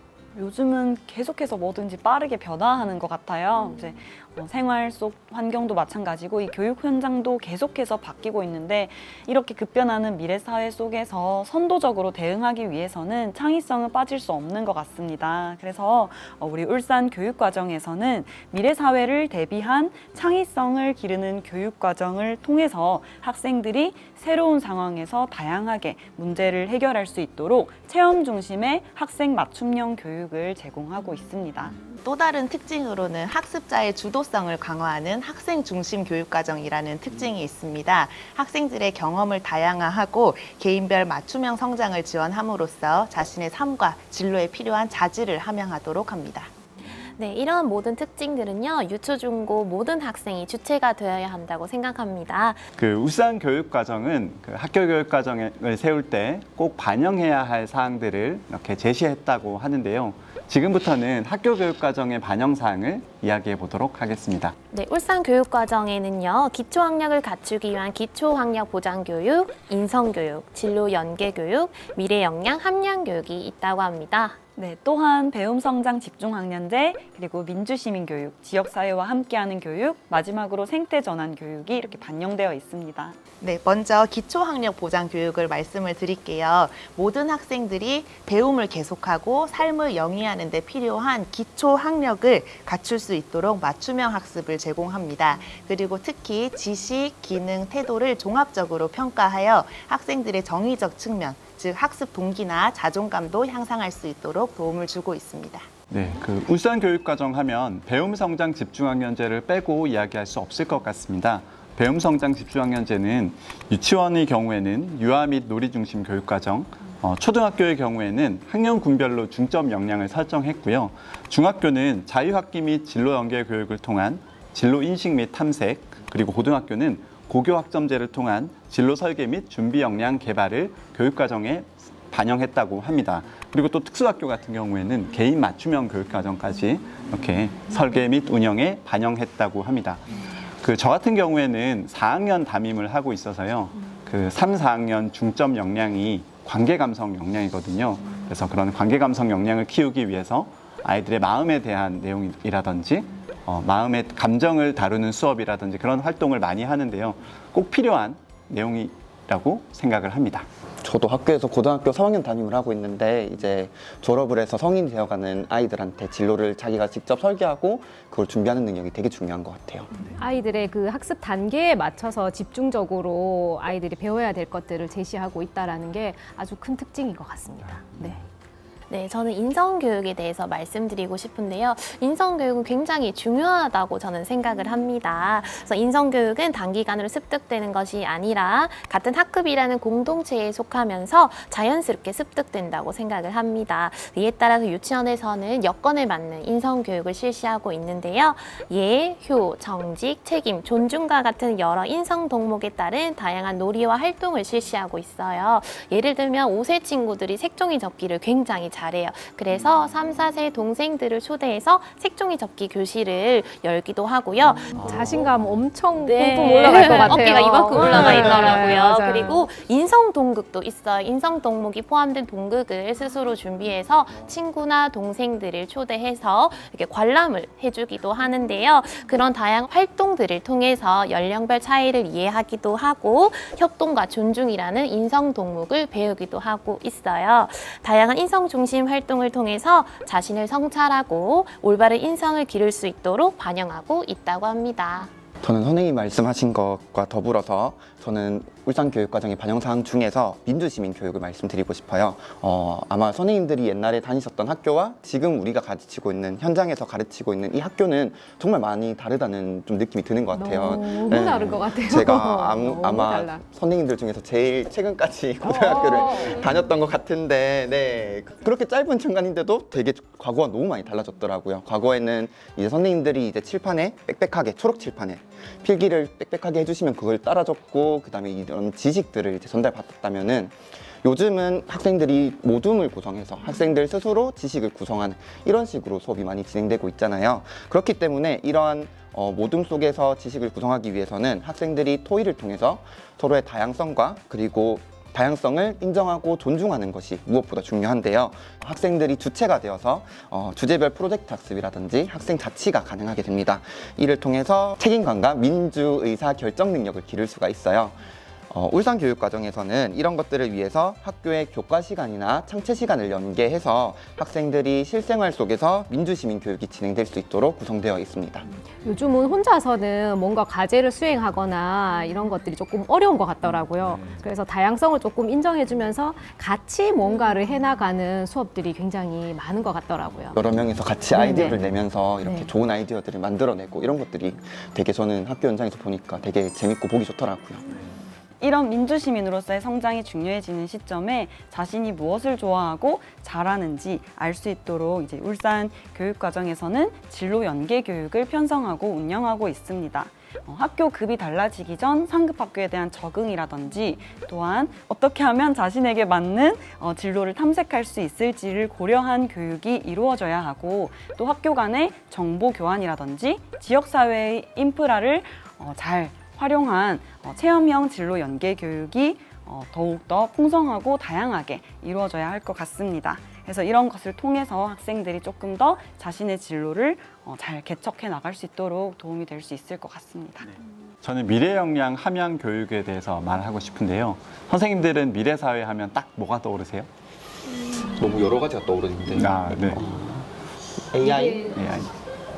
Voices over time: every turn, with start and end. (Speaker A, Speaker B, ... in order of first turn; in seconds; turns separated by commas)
Speaker A: 0.3-31.8, Speaker B: 32.0-46.5, Speaker C: 46.9-52.6, Speaker D: 52.8-64.6, Speaker C: 64.7-74.4, Speaker A: 74.6-83.2, Speaker B: 83.4-105.7, Speaker D: 105.9-160.5, Speaker E: 160.8-169.9, Speaker F: 170.0-178.2, Speaker C: 178.9-214.8, Speaker F: 214.7-219.4, Speaker C: 216.0-245.1, Speaker E: 245.4-318.5, Speaker F: 260.3-263.4, Speaker F: 265.4-266.5, Speaker F: 318.8-330.4, Speaker E: 330.3-337.6, Speaker F: 331.1-331.6, Speaker F: 332.2-332.5, Speaker A: 338.4-380.5, Speaker D: 381.0-386.9, Speaker D: 389.0-390.0, Speaker E: 390.9-391.4, Speaker F: 391.0-391.6, Speaker D: 391.5-391.9